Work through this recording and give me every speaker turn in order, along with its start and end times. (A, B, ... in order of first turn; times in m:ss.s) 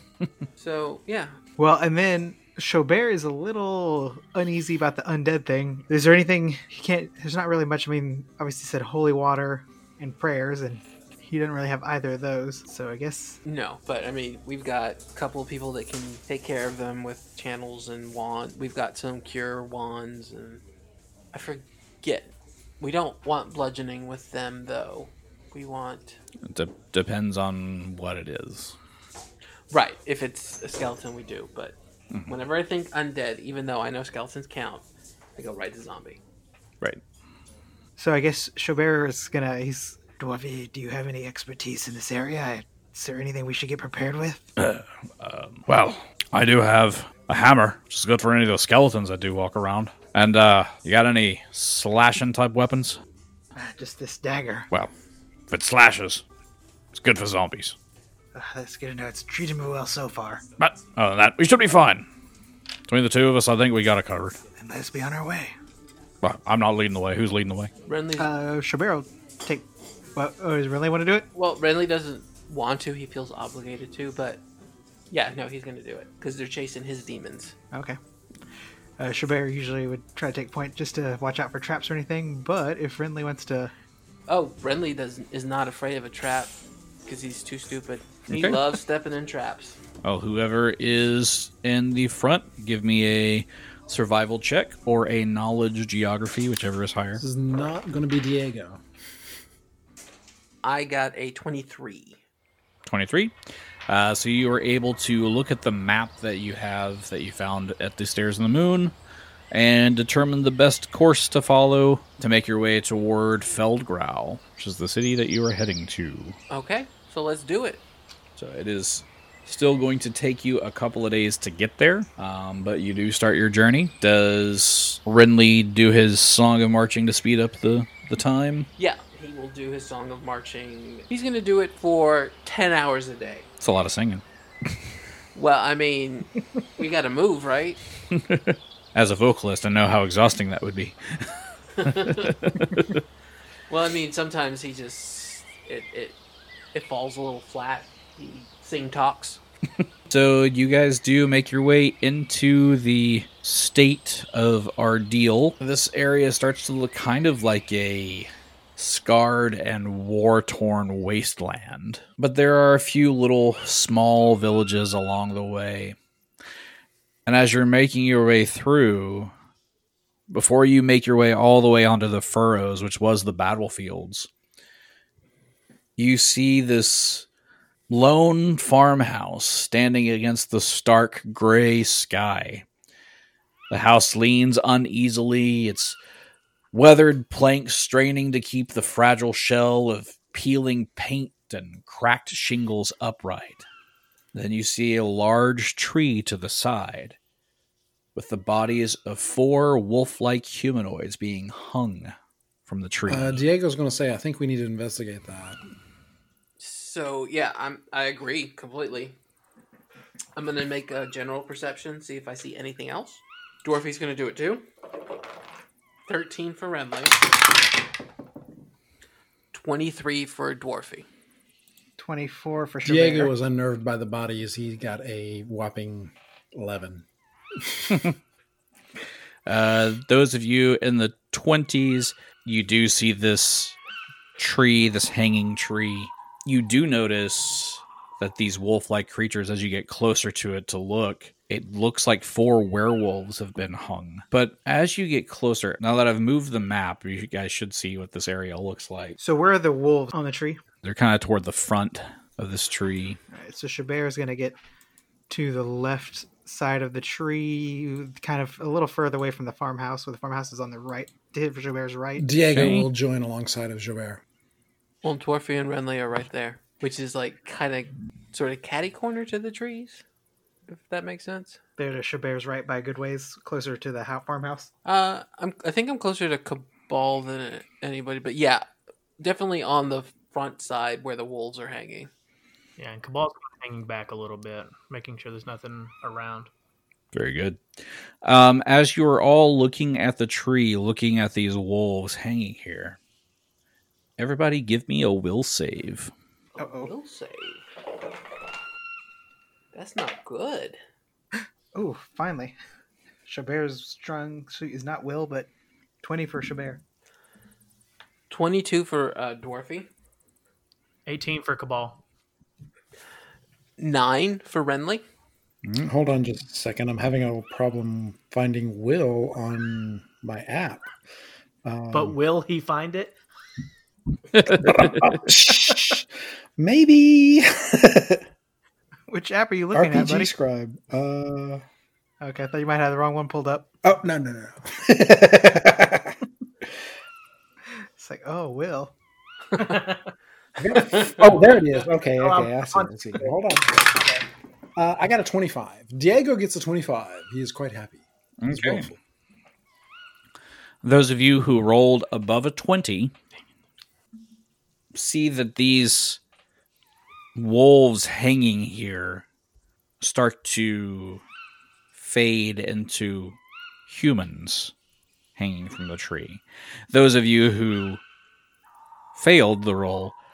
0:00.6-0:01.4 A
0:01.6-0:13.4 B
0:13.4-0:20.6 A
0:21.3-0:26.2 A
0:26.5-0:28.8 C
0:29.7-0:31.8 A
0:32.3-0:34.8 A
0:35.4-0:36.2 A
0:38.0-0:44.4 B
0:44.6-0:53.0 C
0:53.5-0:54.7 B
0:55.5-0:56.2 C
0:56.9-0:57.8 C
0:58.3-1:00.4 B
1:00.6-1:02.0 C
1:02.9-1:04.4 C
1:04.6-1:05.5 B
1:06.2-1:07.7 C
1:07.9-1:08.3 A
1:08.2-1:11.3 B
1:11.3-1:14.4 A
1:15.1-1:17.6 A
1:17.7-1:18.0 B
1:19.0-1:23.7 B
1:24.3-1:26.5 A
1:27.0-1:29.8 A
1:28.3-1:28.6 C
1:30.0-1:37.2 C
1:37.2-1:38.8 D
1:40.6-1:42.2 A
1:42.8-1:43.3 C
1:43.9-1:48.9 C
1:49.5-1:56.4 C
1:56.5-1:57.8 A
1:58.4-2:08.7 C
2:08.8-2:13.5 A
2:13.6-2:14.2 C
2:15.3-2:17.8 A
2:18.1-2:23.0 C
2:21.8-2:22.3 A
2:23.7-2:26.2 A
2:26.7-2:29.4 A
2:30.1-2:46.0 C
2:47.2-2:49.3 C
2:50.3-2:54.3 C
2:56.0-2:57.2 C
2:57.9-3:02.6 C
3:03.7-3:06.0 C
3:06.7-3:13.6 C
3:14.3-3:17.2 C
3:18.1-3:22.1 C
3:22.7-3:23.4 C
3:23.1-3:25.6 D
3:26.6-3:29.2 A
3:30.4-3:34.6 A
3:36.1-3:37.2 A
3:39.5-3:41.0 A
3:42.0-3:43.3 B
3:42.8-3:47.0 D
3:47.6-3:48.0 D
3:49.4-3:53.8 C
3:54.4-4:09.2 C
4:09.2-4:10.6 B
4:10.8-4:13.2 C
4:13.3-4:14.6 B
4:15.3-4:22.3 B
4:22.2-4:24.2 D
4:22.5-4:22.9 C
4:25.0-4:30.0 A
4:30.7-4:31.6 A
4:31.8-4:34.7 B
4:34.8-4:38.6 A
4:39.2-4:42.1 A
4:42.8-4:46.5 E
4:47.1-4:53.0 C
4:54.2-4:56.1 C
4:56.5-4:57.7 A
4:56.6-4:56.9 B
4:59.7-5:00.8 A
5:01.7-5:02.6 B
5:03.2-5:05.5 B
5:06.0-5:06.8 B
5:08.3-5:09.9 A
5:11.0-5:12.0 E
5:13.8-5:15.0 A
5:15.8-5:20.9 D
5:21.6-5:22.2 D
5:21.9-5:23.2 E
5:24.4-5:28.2 D
5:24.5-5:25.1 C
5:29.1-5:30.3 B
5:29.7-5:31.6 D
5:32.2-5:33.7 B
5:33.8-5:36.2 D
5:38.0-5:38.9 B
5:39.6-5:40.0 E
5:40.6-5:43.8 D
5:42.1-5:43.3 E
5:43.9-5:44.2 E
5:44.8-5:49.0 D
5:48.4-5:48.9 C
5:50.8-5:53.1 C
5:54.9-5:56.2 C
5:57.3-5:59.2 C
6:00.0-6:01.2 C
6:01.9-6:04.7 C
6:05.4-6:08.0 C
6:09.2-6:10.1 C